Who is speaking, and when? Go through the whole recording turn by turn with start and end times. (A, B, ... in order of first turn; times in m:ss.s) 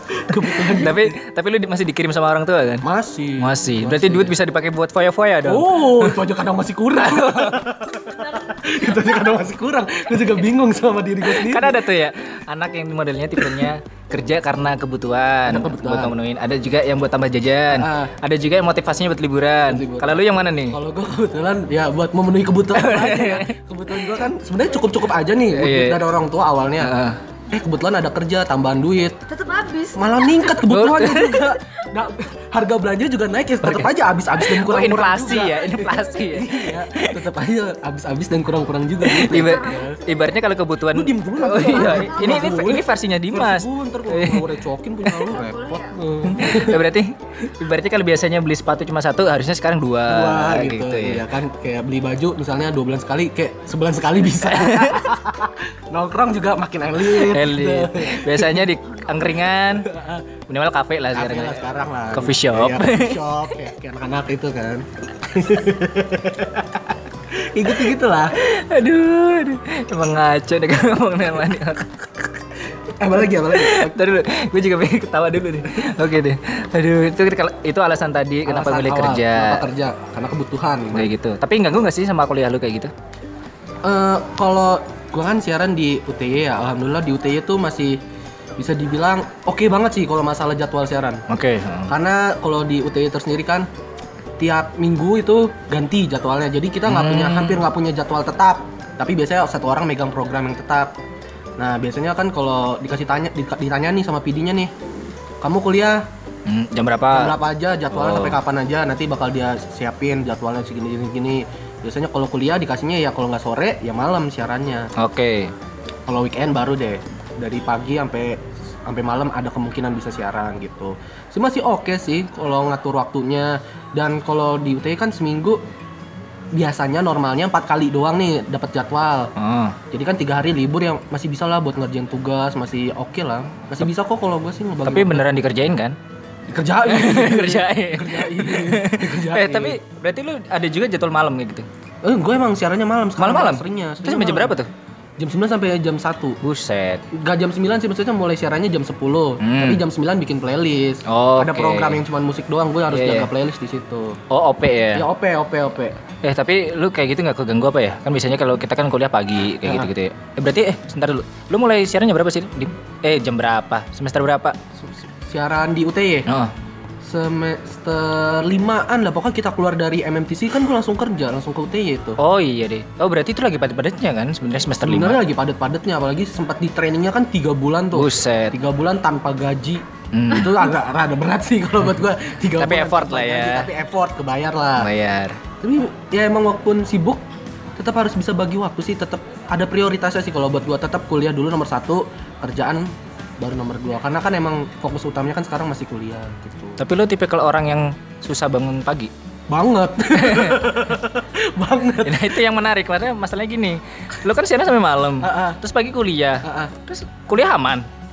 0:00.2-0:01.1 A
0:00.4-0:02.8 B
0:02.8-0:04.4 A
0:03.4-0:06.2 B
0:05.4-0:11.8 A
0:07.0-0:07.7 B
0:11.3-0:20.8 B
0:13.4-0:13.7 A
0:15.5-0:16.2 A
0:17.7-0:18.1 A
0:19.7-0:26.9 A
0:22.7-0:23.5 B
0:25.5-0:26.0 B
0:26.8-0:27.2 B
0:27.5-0:29.2 A
0:29.3-0:30.7 C
0:30.0-0:40.0 A
0:30.7-0:31.5 B
0:33.6-0:37.2 B
0:39.0-0:44.4 B
0:39.3-0:39.9 C
0:40.9-0:46.8 A
0:41.7-0:42.5 C
0:45.3-0:46.1 C
0:46.3-0:51.2 B
0:50.1-0:58.7 A
0:54.4-0:55.0 B
0:57.0-0:59.9 B
0:58.9-0:59.3 C
0:59.9-1:00.3 A
1:00.5-1:03.2 B
1:01.1-1:08.4 A
1:08.3-1:12.3 B
1:13.0-1:14.0 A
1:13.4-1:19.6 B
1:18.4-1:21.1 A
1:20.9-1:22.9 B
1:23.8-1:28.0 A
1:28.6-1:31.2 A
1:31.3-1:31.9 B
1:31.9-1:33.7 A
1:34.4-1:40.9 A
1:36.9-1:37.6 B
1:41.6-1:44.7 A
1:45.4-1:46.1 A
1:46.5-1:47.4 B
1:47.1-1:54.9 A
1:47.9-1:48.4 B
1:55.0-1:55.5 B
1:56.1-2:05.6 A
2:06.5-2:09.3 A
2:09.4-2:09.8 B
2:09.9-2:15.3 A
2:14.9-2:16.0 B
2:16.5-2:19.8 A
2:16.9-2:21.7 B
2:22.0-2:24.6 A
2:23.2-2:24.7 B
2:25.2-2:26.4 A
2:26.4-2:27.0 B
2:27.1-2:34.2 A
2:29.4-2:29.8 B
2:31.1-2:32.0 B
2:32.9-2:33.3 B
2:34.3-2:35.1 B
2:35.0-2:36.0 A
2:36.2-2:44.6 B
2:44.8-2:46.3 A
2:46.3-2:46.5 B
2:47.0-2:52.2 A
2:52.2-2:55.2 B
2:54.8-3:04.9 A
2:57.9-2:58.6 B
3:00.1-3:00.7 B
3:02.6-3:03.7 B
3:04.8-3:05.4 B
3:05.6-3:07.2 A
3:07.8-3:16.8 A
3:16.8-3:19.1 B
3:19.5-3:22.4 A
3:20.1-3:20.7 B
3:22.0-3:27.9 B
3:25.2-3:25.6 A
3:26.4-3:26.7 A